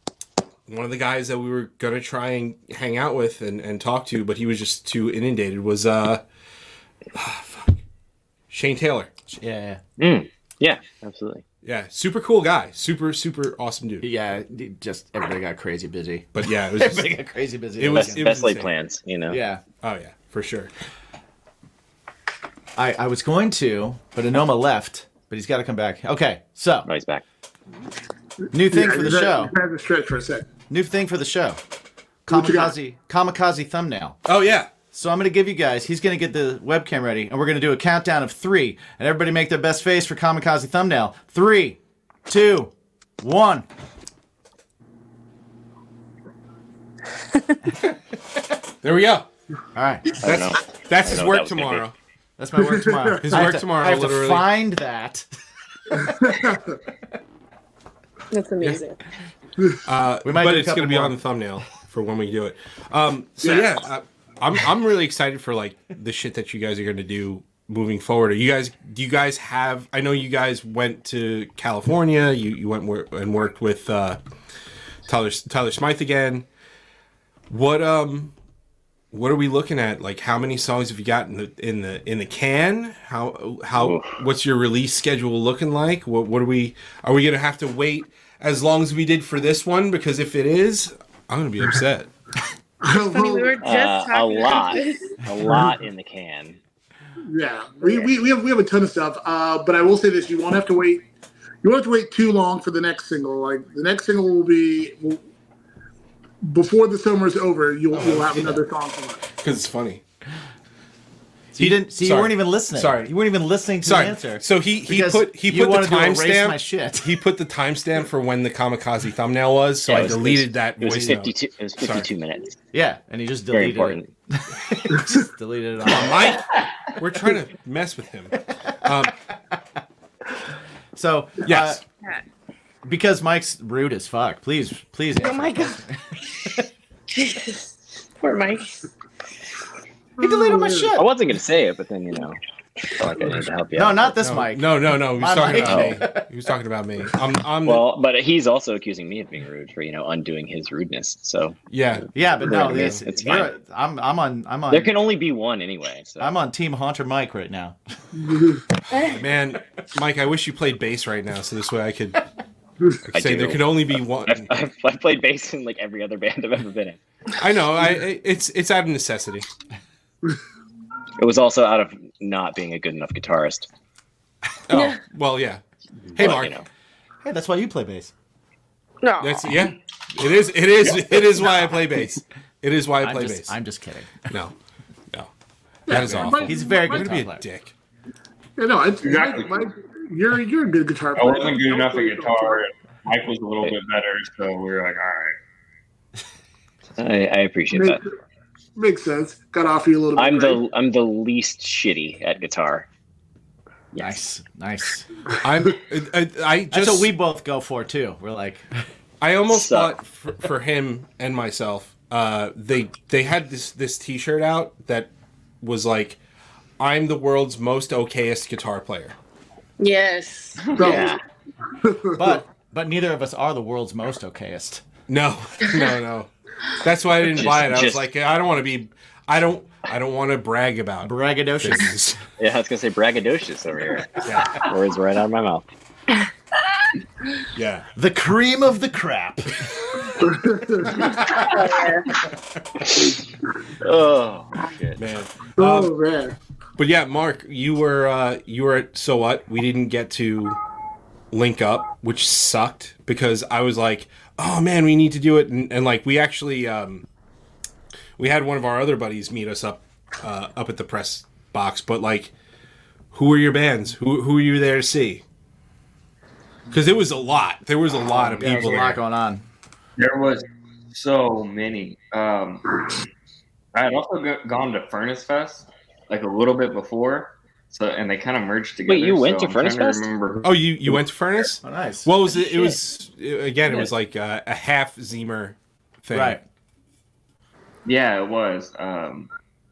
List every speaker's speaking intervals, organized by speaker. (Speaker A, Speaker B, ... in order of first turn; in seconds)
Speaker A: 0.7-6.2, 7.1-7.8, 8.5-9.1, 11.6-14.1, 16.3-17.1, 17.8-18.7, 19.8-20.7, 34.2-34.7, 48.8-49.2, 50.2-51.9, 53.2-54.5, 59.8-74.2, 75.0-76.5, 77.5-78.3, 79.1-92.1, 109.4-110.0, 111.6-113.1, 113.8-122.1, 125.9-129.1, 131.4-131.8, 144.2-147.8, 151.7-153.0, 158.8-162.2, 163.1-164.5, 167.4-169.5, 174.7-175.6, 176.1-176.6, 179.2-183.5, 184.3-184.5, 185.9-187.7, 205.4-207.1, 209.2-215.1, 215.6-216.2, 216.8-219.2, 225.1-226.3, 226.8-232.2, 234.2-234.7, 237.5-237.9, 245.0-245.9, 246.8-250.6, 251.3-257.0, 258.2-262.3, 263.1-265.2, 266.7-269.0, 280.4-286.4
Speaker B: 9.3-9.8, 14.0-18.3, 19.3-19.6, 22.8-26.9, 28.5-29.5, 30.7-31.6, 32.2-34.2, 34.9-43.7, 49.7-50.0, 52.4-55.2, 55.9-56.3, 60.2-61.1, 107.9-108.6, 111.5-117.2, 122.7-126.4, 130.9-131.8, 132.8-136.6, 140.2-141.1, 143.7-146.2, 152.1-154.9, 156.2-157.8, 177.2-178.1, 183.0-184.3, 185.9-187.4, 204.0-205.1, 206.7-208.8, 222.1-224.8, 231.0-232.2, 237.9-239.7, 268.1-269.4, 281.6-282.1, 286.1-286.4
Speaker C: 10.0-11.4, 17.9-19.4, 26.9-27.2, 50.2-51.9, 83.8-84.2, 93.6-96.6, 119.9-122.6, 123.5-124.1, 140.9-144.2, 145.5-146.0, 147.6-151.6, 152.4-153.5, 154.7-156.3, 163.1-167.0, 171.2-173.7, 176.1-176.7, 197.0-198.0, 200.2-202.9, 203.9-204.2, 209.5-209.9, 220.8-221.2, 227.2-228.1, 232.4-235.6, 242.9-243.1, 243.8-245.0, 278.9-280.1
Speaker D: 28.7-30.5, 32.3-32.7, 52.6-53.5, 55.9-56.8, 63.4-63.7, 92.8-93.6, 97.3-101.0, 101.6-105.2, 106.4-109.2, 158.2-158.6, 185.9-187.2, 188.6-192.6, 197.7-198.0, 198.8-200.6, 220.8-221.1, 221.8-222.4, 240.1-241.2, 245.6-246.3
Speaker E: 58.3-59.0, 92.9-95.2, 135.2-135.8, 137.1-138.7, 140.4-140.7, 158.9-159.2, 174.7-175.0, 179.0-179.7, 219.8-221.2, 241.1-242.1, 282.3-282.8
Speaker F: 189.0-189.7, 191.2-195.3, 220.6-221.0, 270.0-273.1, 273.7-280.5, 287.8-289.3